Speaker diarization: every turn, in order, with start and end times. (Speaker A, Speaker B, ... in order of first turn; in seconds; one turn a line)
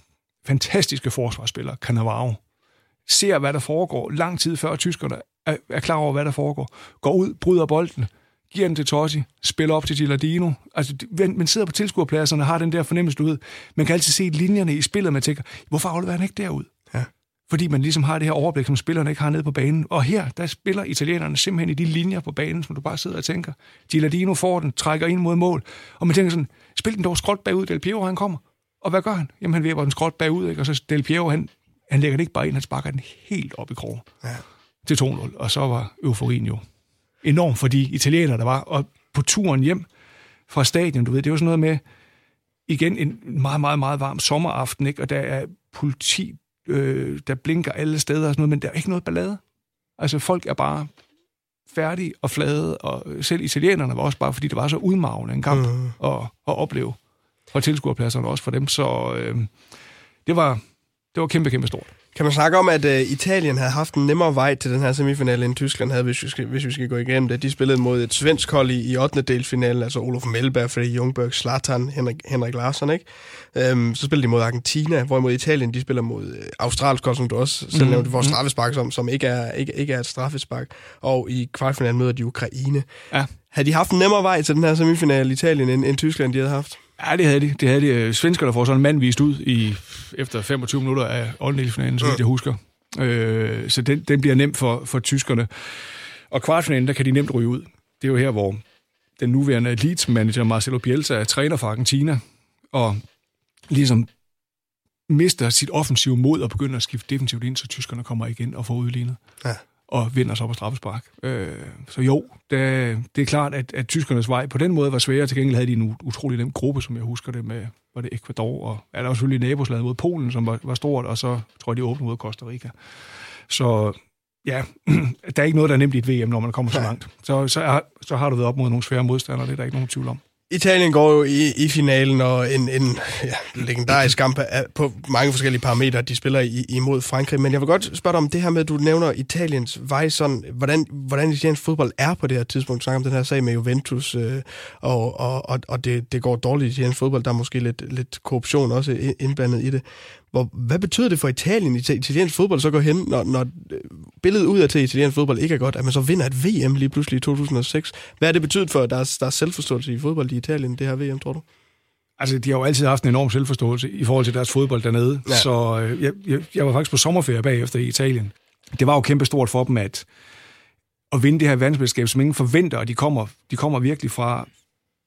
Speaker A: 0.4-2.4
Speaker A: 3.0-16.7
Speaker A: 17.5-34.1
Speaker A: 34.8-36.6
Speaker A: 37.2-39.9
Speaker A: 40.5-41.8
Speaker A: 42.7-49.4
Speaker A: 50.0-50.9
Speaker A: 51.7-57.0
Speaker B: 55.5-55.9
Speaker A: 57.5-59.5
Speaker A: 60.2-60.6
Speaker A: 61.1-61.9
Speaker B: 62.1-82.9
Speaker A: 77.7-78.3
Speaker B: 83.5-86.8
Speaker A: 87.0-95.8
Speaker A: 96.3-98.6
Speaker A: 99.2-102.2
Speaker A: 102.7-103.0
Speaker A: 103.7-104.1
Speaker A: 105.1-109.2
Speaker A: 109.9-122.7
Speaker A: 123.5-130.2
Speaker B: 130.5-161.4
Speaker A: 162.2-170.1
Speaker A: 171.1-174.5